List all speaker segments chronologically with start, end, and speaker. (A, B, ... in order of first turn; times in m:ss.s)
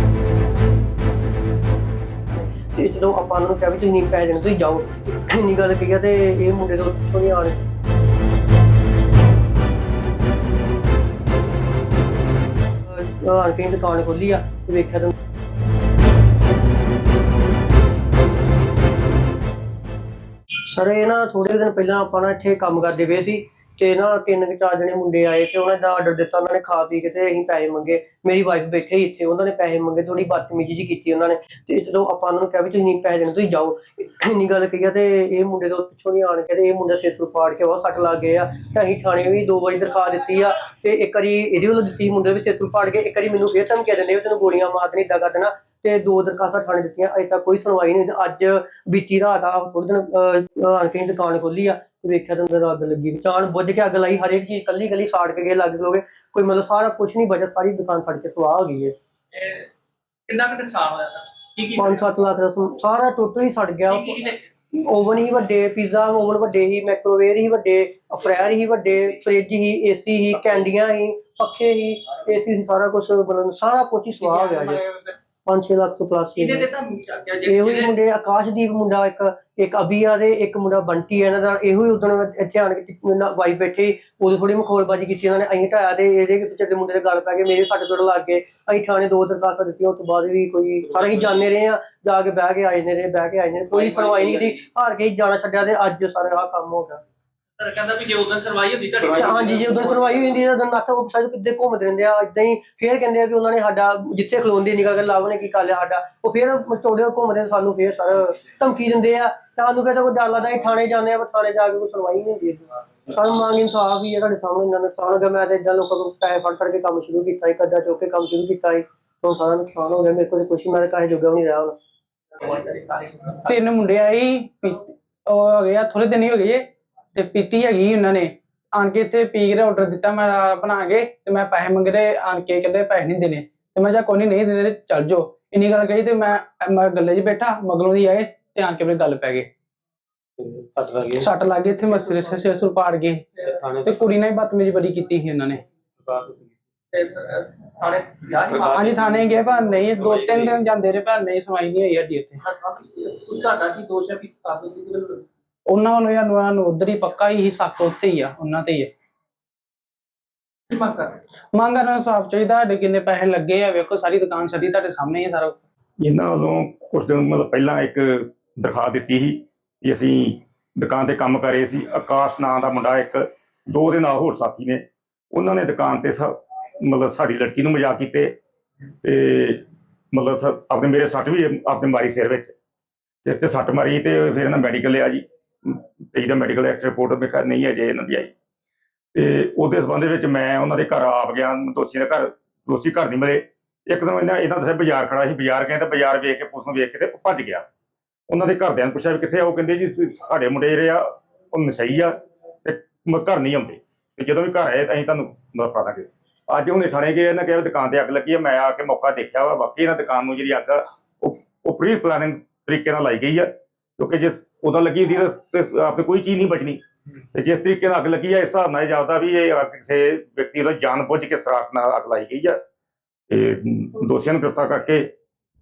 0:02.4-0:07.6 A
0:12.9-0:15.1 A
0:20.7-0:58.9 A
0:59.3-0:59.7 B
1:00.3-1:02.0 B
1:01.7-1:14.8 A
1:03.9-1:04.4 B
1:14.2-1:15.1 C
1:15.4-1:16.7 A
1:16.4-1:17.9 B
1:17.4-1:37.0 A
1:31.0-1:31.3 B
1:33.7-1:34.6 B
1:37.6-1:40.4 B
1:39.0-2:01.8 A
2:02.5-2:03.4 B
2:03.4-2:19.5 C
2:20.4-2:21.3 D
2:21.1-2:25.6 C
2:23.5-2:24.0 D
2:26.0-2:26.5 D
2:26.9-2:30.4 B
2:28.5-2:28.9 D
2:28.6-2:32.4 C
2:30.1-2:30.6 D
2:32.4-2:35.2 B
2:35.7-2:38.9 C
2:40.7-2:41.2 B
2:41.5-2:45.5 C
2:46.0-2:58.3 E
2:59.0-3:02.5 E
3:03.2-3:08.3 E
3:09.1-3:17.6 E
3:18.3-3:36.8 E
3:37.3-3:42.6 E
3:43.3-3:45.1 E